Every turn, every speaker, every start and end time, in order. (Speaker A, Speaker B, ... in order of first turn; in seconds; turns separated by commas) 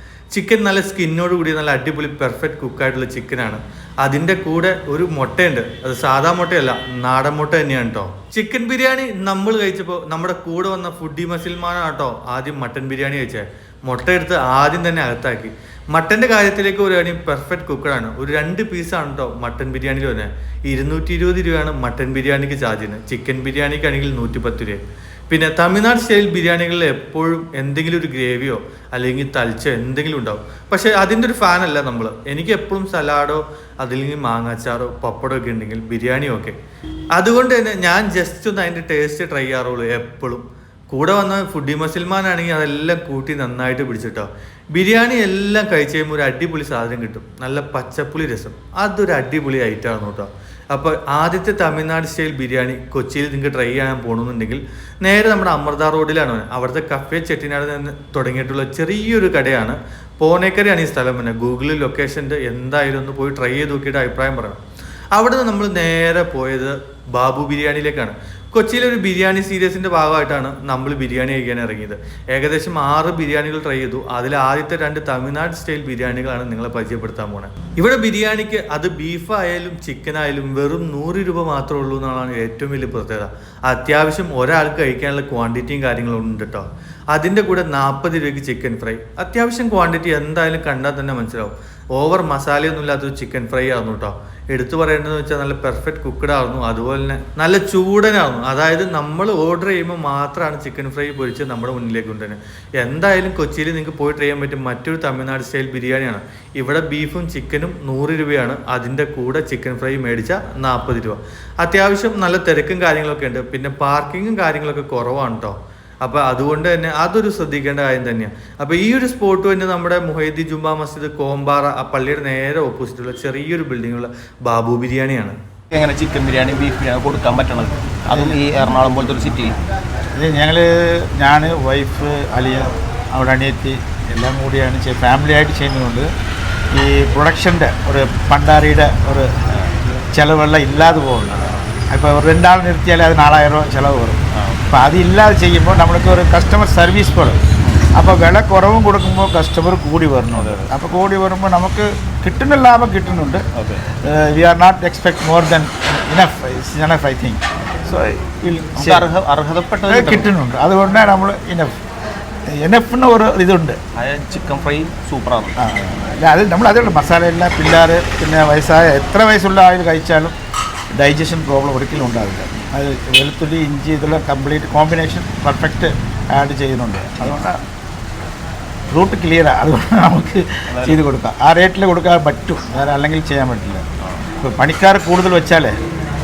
Speaker A: 0.3-24.8, Speaker A: 25.3-36.5, Speaker A: 37.2-64.6, Speaker A: 65.2-125.4, Speaker B: 125.7-129.6, Speaker C: 128.1-128.4, Speaker C: 130.2-136.1, Speaker C: 136.7-139.3, Speaker C: 140.1-144.2, Speaker B: 141.3-141.6, Speaker B: 144.3-144.9, Speaker C: 144.7-147.4, Speaker B: 147.6-147.9, Speaker C: 147.9-153.4, Speaker B: 150.3-150.7, Speaker B: 153.6-153.8, Speaker C: 154.0-159.1, Speaker B: 158.8-160.3, Speaker C: 159.9-161.7, Speaker C: 162.6-163.8, Speaker B: 163.9-165.6, Speaker C: 165.6-170.3, Speaker C: 170.9-177.6, Speaker C: 178.9-183.8, Speaker B: 180.7-181.0, Speaker B: 184.0-184.3, Speaker C: 184.4-185.8